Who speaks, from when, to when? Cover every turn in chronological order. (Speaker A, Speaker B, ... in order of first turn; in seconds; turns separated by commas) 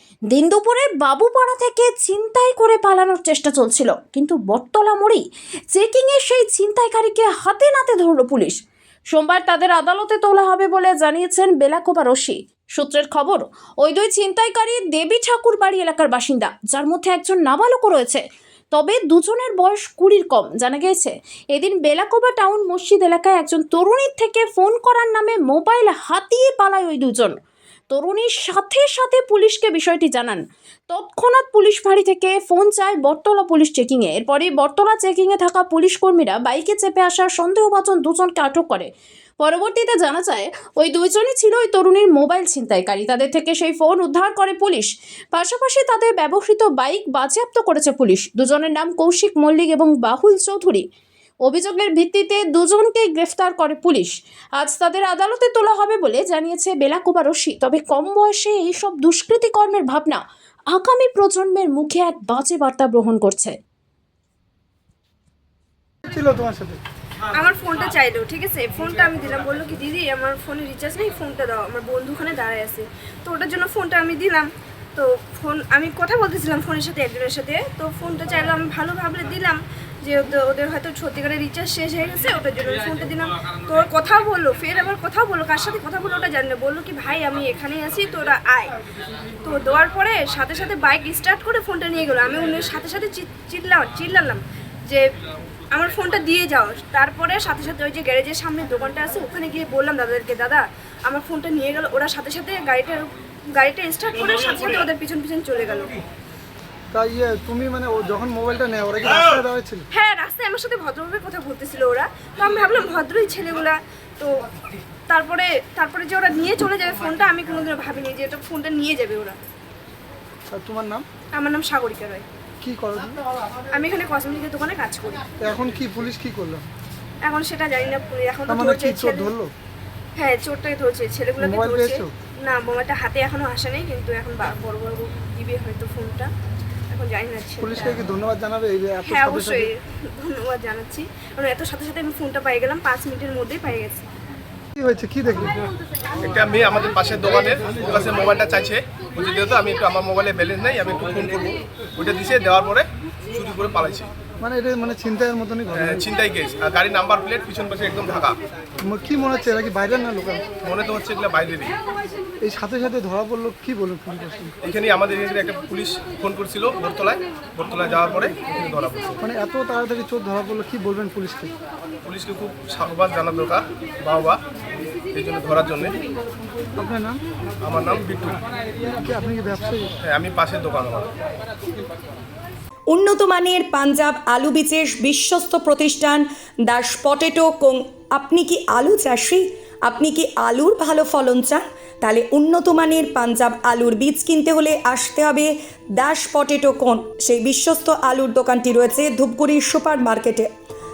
Speaker A: 0.3-8.6, Speaker A: 9.1-27.4, Speaker A: 27.9-38.9, Speaker A: 39.4-50.9, Speaker A: 51.4-63.5, Speaker B: 66.0-66.8, Speaker C: 67.3-88.8, Speaker C: 89.4-95.0, Speaker C: 95.7-106.0, Speaker B: 106.9-109.8, Speaker C: 109.9-114.3, Speaker C: 115.1-119.4, Speaker B: 120.5-121.0, Speaker C: 121.4-122.2, Speaker B: 122.6-123.2, Speaker C: 123.7-125.2, Speaker B: 125.4-126.7, Speaker C: 127.2-129.3, Speaker B: 128.5-129.5, Speaker C: 130.2-136.3, Speaker B: 131.4-132.1, Speaker C: 136.9-138.0, Speaker B: 137.6-139.7, Speaker C: 139.0-144.1, Speaker B: 144.8-145.6, Speaker D: 146.2-154.1, Speaker B: 154.4-156.1, Speaker D: 155.7-158.4, Speaker B: 158.8-160.5, Speaker D: 160.6-161.8, Speaker B: 162.4-164.6, Speaker D: 164.6-169.2, Speaker B: 169.2-171.5, Speaker D: 172.0-174.4, Speaker D: 175.1-176.0, Speaker B: 176.8-177.2, Speaker D: 177.6-178.4, Speaker B: 178.8-179.9, Speaker D: 180.0-181.1, Speaker E: 182.9-200.5